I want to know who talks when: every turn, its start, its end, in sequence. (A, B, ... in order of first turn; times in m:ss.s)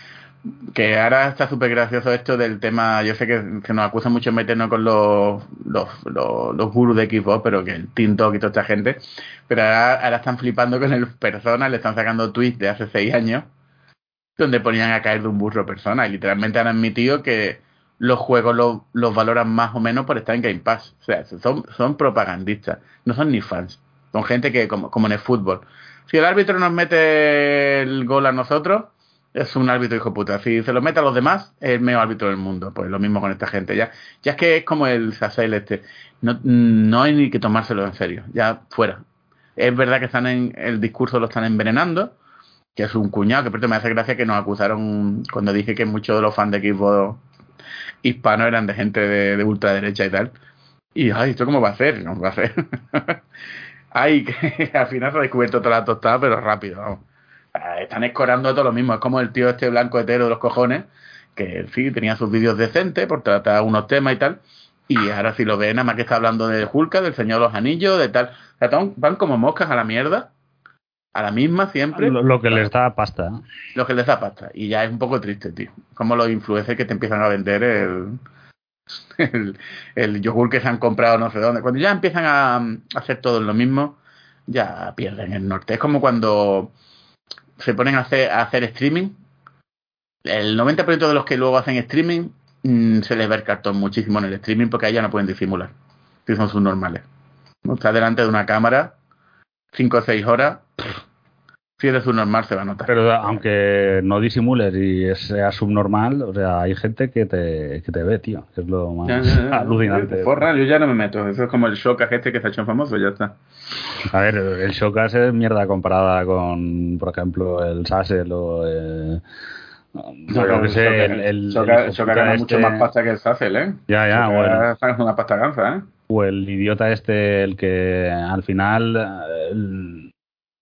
0:00.7-0:13.5 A
0:14.4-0:39.0 A
0:39.6-0:42.1 A
0:42.8-0:47.2 A
0:48.0-0:50.3 A
0:51.0-0:53.2 A
0:53.9-0:57.0 A
0:57.5-1:10.3 A
1:11.1-1:12.7 A
1:11.9-1:13.4 B
1:13.8-1:18.2 A
1:19.2-1:24.0 A
1:24.5-1:26.7 A
1:27.6-1:29.2 A
1:30.3-1:35.7 A
1:36.3-1:37.0 A
1:37.6-1:38.9 A
1:39.7-1:40.9 A
1:41.8-1:43.4 A
1:42.9-1:50.4 B
1:49.0-1:53.4 A
1:54.1-1:59.2 B
2:00.0-2:02.9 B
2:00.3-2:05.9 A
2:03.9-2:04.7 B
2:06.1-2:10.1 B